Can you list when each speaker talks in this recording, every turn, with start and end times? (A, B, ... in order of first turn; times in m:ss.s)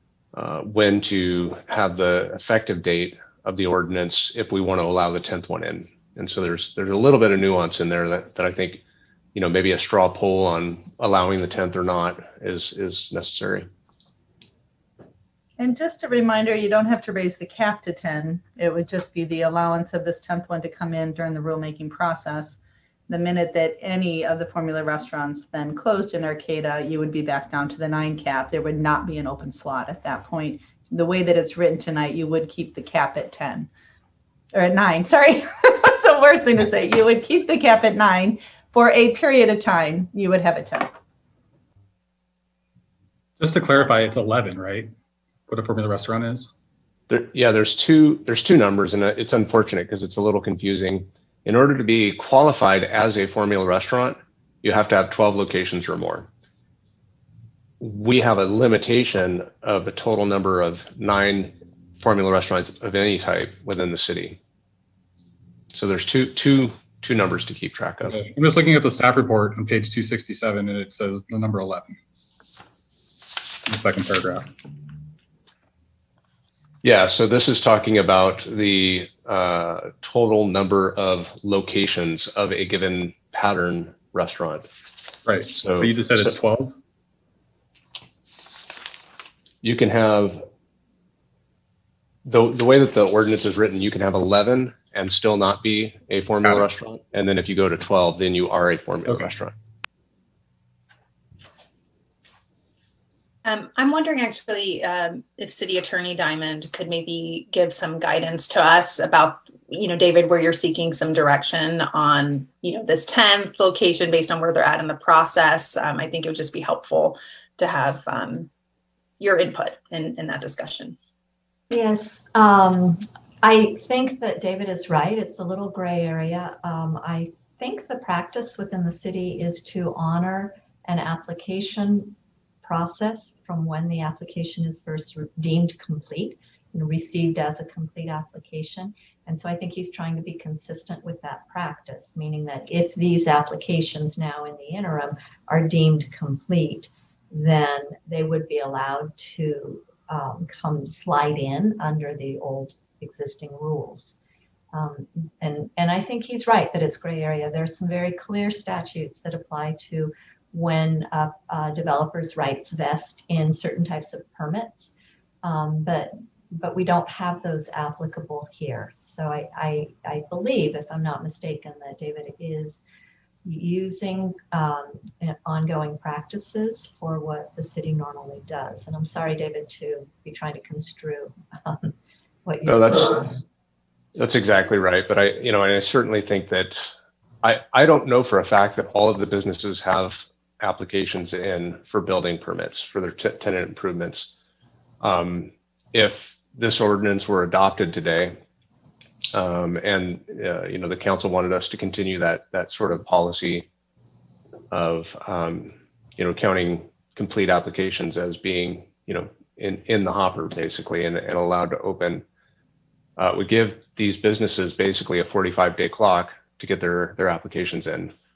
0:00.3-0:08.8 A
0:09.3-0:13.7 A
0:15.6-0:33.7 B
0:34.5-0:40.9 B
0:43.4-0:44.9 C
0:45.5-0:46.5 C
0:47.1-0:56.3 A
0:57.8-1:04.4 A
1:05.7-1:08.2 A
1:08.1-1:12.0 C
1:13.6-1:14.5 C
1:16.8-1:24.7 A
1:25.2-1:26.7 C
1:25.5-1:26.3 A
1:29.6-1:30.4 A
1:32.2-1:39.5 A
1:43.4-1:58.5 D
1:59.2-2:01.0 D
2:01.7-2:34.2 E
2:34.7-2:44.9 E
2:45.4-2:52.8 E
2:53.4-3:01.9 E
3:02.4-3:03.3 E
3:02.6-3:03.3 A
3:04.1-3:06.9 A
3:07.4-3:14.3 A
3:15.0-3:18.4 A
3:19.3-3:23.7 A
3:24.7-3:32.2 A
3:33.2-3:38.1 A